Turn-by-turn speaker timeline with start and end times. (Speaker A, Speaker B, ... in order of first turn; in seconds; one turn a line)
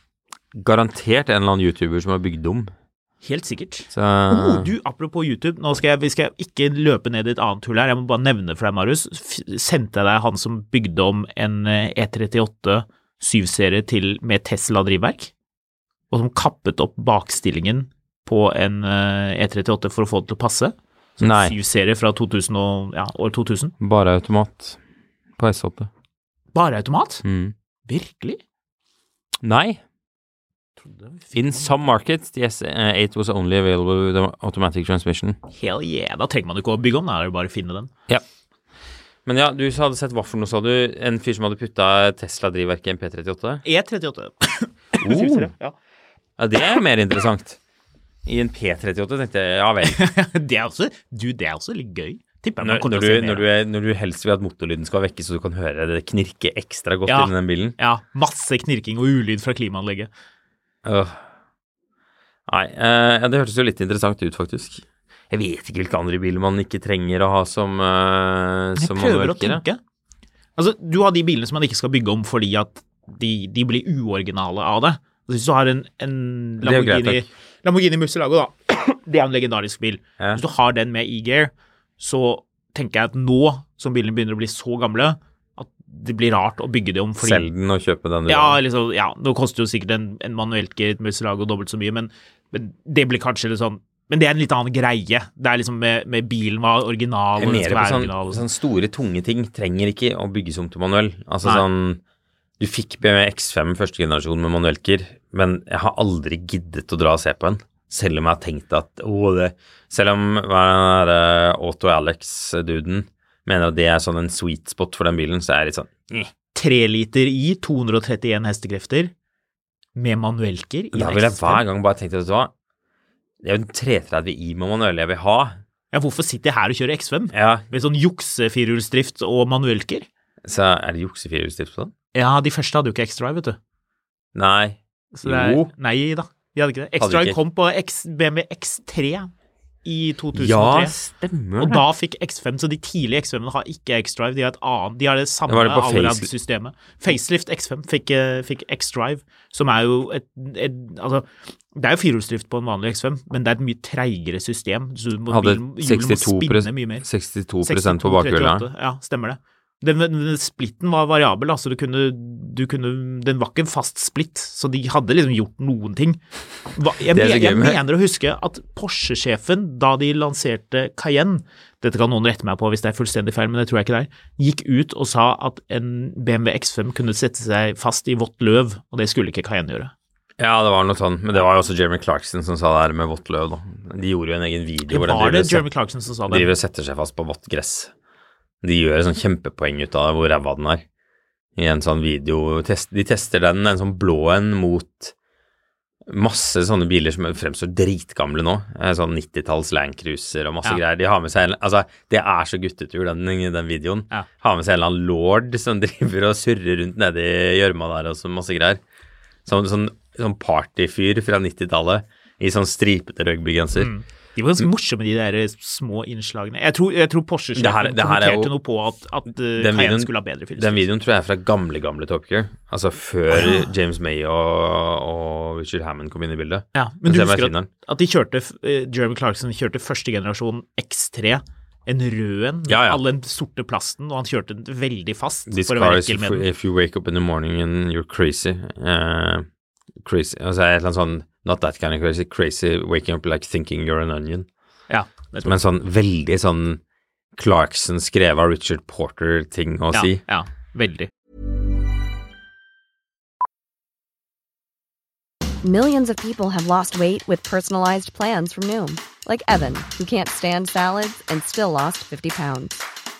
Speaker A: 0.5-2.7
Speaker B: 3.2-15.3
Speaker A: 3.9-4.7
Speaker B: 16.1-23.7
Speaker A: 21.2-21.6
Speaker A: 23.8-24.8
Speaker A: 25.4-25.9
Speaker B: 26.5-27.2
Speaker A: 27.2-27.5
Speaker B: 27.9-28.4
Speaker A: 29.4-29.8
Speaker B: 30.8-31.8
Speaker A: 31.3-35.4
Speaker B: 35.5-37.9
Speaker A: 39.2-43.6
Speaker B: 43.6-45.7
Speaker A: 45.0-45.5
Speaker A: 46.4-47.6
Speaker A: 48.2-50.0
Speaker B: 49.8-53.5
Speaker A: 52.6-57.8
Speaker B: 57.0-60.1
Speaker A: 60.8-61.2
Speaker A: 62.5-69.6
Speaker B: 68.8-69.8
Speaker B: 70.6-87.5
Speaker A: 76.6-77.3
Speaker A: 87.2-88.6
Speaker B: 88.3-98.4
Speaker A: 97.4-102.0
Speaker A: 102.6-116.3
Speaker B: 116.5-119.1
Speaker B: 119.9-121.6
Speaker A: 120.9-122.5
Speaker A: 123.4-125.6
Speaker B: 125.9-130.1
Speaker A: 127.3-127.7
Speaker A: 130.4-131.9
Speaker B: 132.1-133.6
Speaker A: 134.3-135.7
Speaker B: 135.1-139.3
Speaker A: 137.0-137.4
Speaker B: 139.8-140.9
Speaker A: 140.3-141.8
Speaker B: 141.6-157.1
Speaker A: 145.5-146.3
Speaker A: 155.3-158.7
Speaker B: 157.6-166.2
Speaker B: 166.7-179.9
Speaker A: 167.1-167.8
Speaker A: 180.4-185.7
Speaker B: 184.9-186.5
Speaker A: 186.3-187.9
Speaker A: 188.6-190.8
Speaker A: 191.6-195.1
Speaker A: 196.1-208.8
Speaker A: 209.4-213.9
Speaker B: 213.7-220.9
Speaker A: 217.6-218.5
Speaker A: 219.6-227.7
Speaker B: 223.3-223.7
Speaker B: 226.7-236.4
Speaker A: 232.7-233.0
Speaker A: 235.5-239.5
Speaker A: 240.0-244.5
Speaker B: 244.9-245.5
Speaker A: 245.4-246.8
Speaker A: 247.3-250.2
Speaker B: 249.9-251.1
Speaker C: 255.6-262.8